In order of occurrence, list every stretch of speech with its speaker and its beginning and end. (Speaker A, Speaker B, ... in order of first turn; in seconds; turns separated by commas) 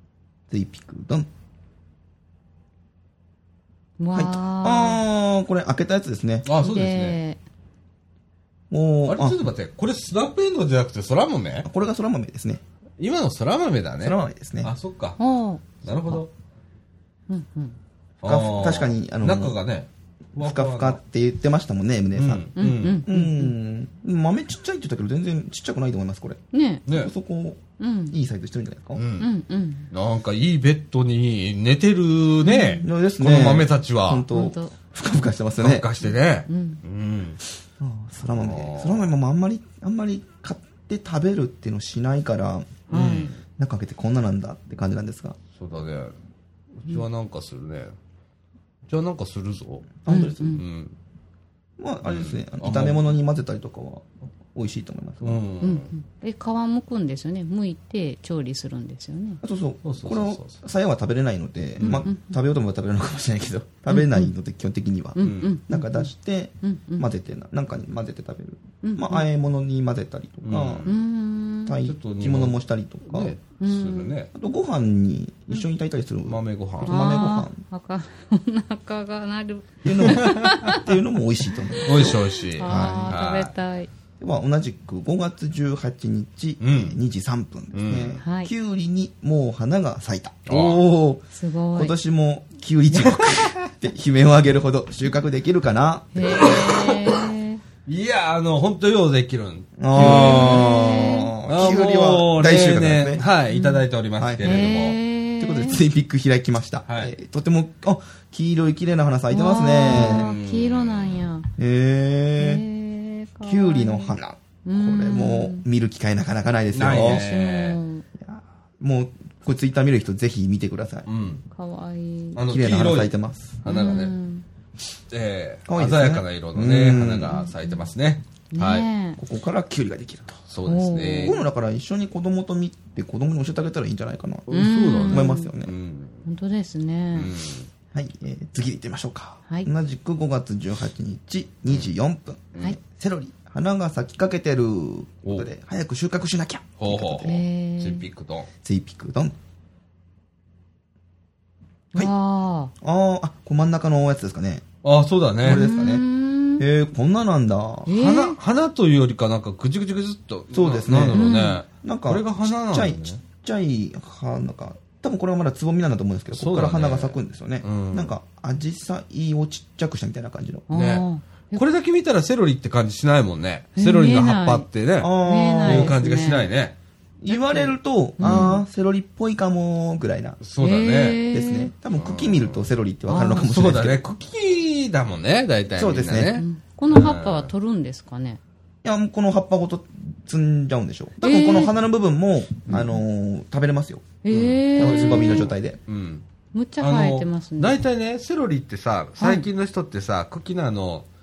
Speaker A: 0.5-1.3, Speaker B: 4.0-5.0, Speaker A: 4.1-6.5, Speaker C: 6.5-7.2, Speaker B: 6.6-7.4, Speaker A: 8.7-9.4, Speaker C: 9.1-11.7, Speaker A: 11.7-12.6, Speaker C: 13.0-15.2, Speaker A: 14.0-14.7, Speaker B: 15.2-15.8, Speaker C: 15.8-16.3, Speaker B: 17.3-17.8, Speaker C: 18.2-21.0, Speaker A: 18.2-19.6, Speaker A: 20.4-22.5, Speaker C: 22.2-23.0, Speaker B: 22.6-23.5, Speaker A: 23.0-29.0, Speaker B: 26.5-26.9, Speaker B: 27.8-28.1, Speaker C: 29.0-29.3, Speaker B: 29.2-29.9, Speaker C: 29.9-34.3, Speaker B: 32.4-32.9, Speaker A: 32.8-35.9, Speaker B: 34.3-34.7, Speaker C: 35.6-37.4, Speaker B: 36.5-36.8, Speaker A: 37.8-42.9, Speaker C: 38.3-39.1, Speaker B: 42.9-43.3, Speaker C: 42.9-43.4, Speaker A: 43.5-45.4, Speaker C: 45.5-46.1, Speaker C: 46.8-48.0, Speaker C: 48.9-50.9, Speaker A: 50.0-50.6, Speaker B: 50.1-50.6, Speaker A: 51.8-55.4, Speaker C: 52.0-53.0, Speaker C: 55.2-55.9, Speaker B: 55.6-59.4, Speaker A: 59.4-71.0, Speaker C: 59.8-60.6, Speaker C: 61.8-62.1, Speaker B: 63.9-64.3, Speaker B: 65.2-66.1, Speaker C: 65.2-65.5, Speaker B: 66.6-67.1, Speaker B: 68.8-69.2, Speaker C: 70.5-70.9, Speaker B: 70.9-71.8, Speaker A: 71.7-73.3, Speaker C: 71.8-74.3, Speaker B: 73.6-74.1, Speaker A: 74.3-77.6, Speaker C: 76.3-77.2, Speaker B: 76.9-80.9, Speaker A: 79.8-83.1, Speaker C: 80.0-80.7, Speaker C: 81.9-83.5, Speaker B: 81.9-83.9, Speaker A: 84.2-96.6, Speaker C: 86.6-87.0, Speaker C: 87.7-88.2, Speaker B: 88.2-88.5, Speaker C: 90.5-90.8, Speaker B: 91.3-91.9, Speaker C: 92.9-93.7, Speaker B: 96.2-97.6, Speaker C: 96.3-97.3, Speaker C: 97.9-105.0, Speaker A: 99.8-103.2, Speaker B: 99.9-101.3, Speaker B: 103.5-103.8, Speaker A: 104.2-104.7, Speaker B: 104.4-105.8, Speaker A: 105.4-110.3, Speaker C: 106.9-107.1, Speaker B: 109.3-111.5, Speaker C: 109.8-111.3, Speaker A: 111.6-112.6, Speaker B: 112.4-115.7, Speaker A: 113.4-117.2, Speaker C: 116.7-117.8, Speaker B: 117.0-118.0, Speaker A: 118.2-121.1, Speaker C: 121.1-121.4, Speaker B: 121.5-122.4, Speaker C: 122.3-124.1, Speaker A: 122.5-123.6, Speaker B: 123.7-124.5, Speaker C: 125.1-128.9, Speaker A: 125.7-127.4, Speaker B: 127.3-127.8, Speaker B: 128.5-129.2, Speaker A: 129.2-130.4, Speaker C: 130.5-131.4, Speaker B: 130.7-131.3, Speaker A: 131.2-134.5, Speaker C: 134.5-136.2, Speaker B: 134.5-135.5, Speaker A: 135.0-135.7, Speaker B: 136.3-137.3, Speaker C: 137.2-137.7, Speaker A: 137.9-147.4, Speaker C: 146.8-148.5, Speaker B: 147.2-148.1, Speaker A: 148.6-149.3, Speaker B: 151.9-152.7, Speaker A: 152.8-154.7, Speaker C: 154.8-155.7, Speaker A: 155.4-156.1, Speaker B: 155.4-156.6, Speaker A: 156.6-158.0, Speaker B: 157.9-158.4, Speaker C: 158.0-163.2, Speaker A: 160.5-170.7, Speaker B: 161.1-161.6, Speaker C: 166.3-168.1, Speaker B: 170.7-171.6, Speaker C: 170.7-175.1, Speaker B: 173.8-174.7, Speaker A: 175.0-176.0, Speaker B: 175.2-176.5, Speaker C: 175.6-176.8, Speaker A: 177.2-180.4, Speaker B: 177.3-178.6, Speaker C: 178.2-178.5, Speaker C: 180.4-181.2, Speaker B: 180.6-181.7, Speaker A: 181.3-184.0, Speaker C: 181.9-182.7, Speaker B: 183.1-183.4, Speaker C: 183.3-187.5, Speaker A: 185.8-186.4, Speaker B: 186.4-188.4, Speaker A: 188.8-194.1, Speaker B: 191.2-191.7, Speaker B: 194.2-195.5, Speaker C: 194.3-196.2, Speaker A: 194.8-195.8, Speaker B: 196.5-197.8, Speaker C: 196.8-201.1, Speaker B: 199.2-199.5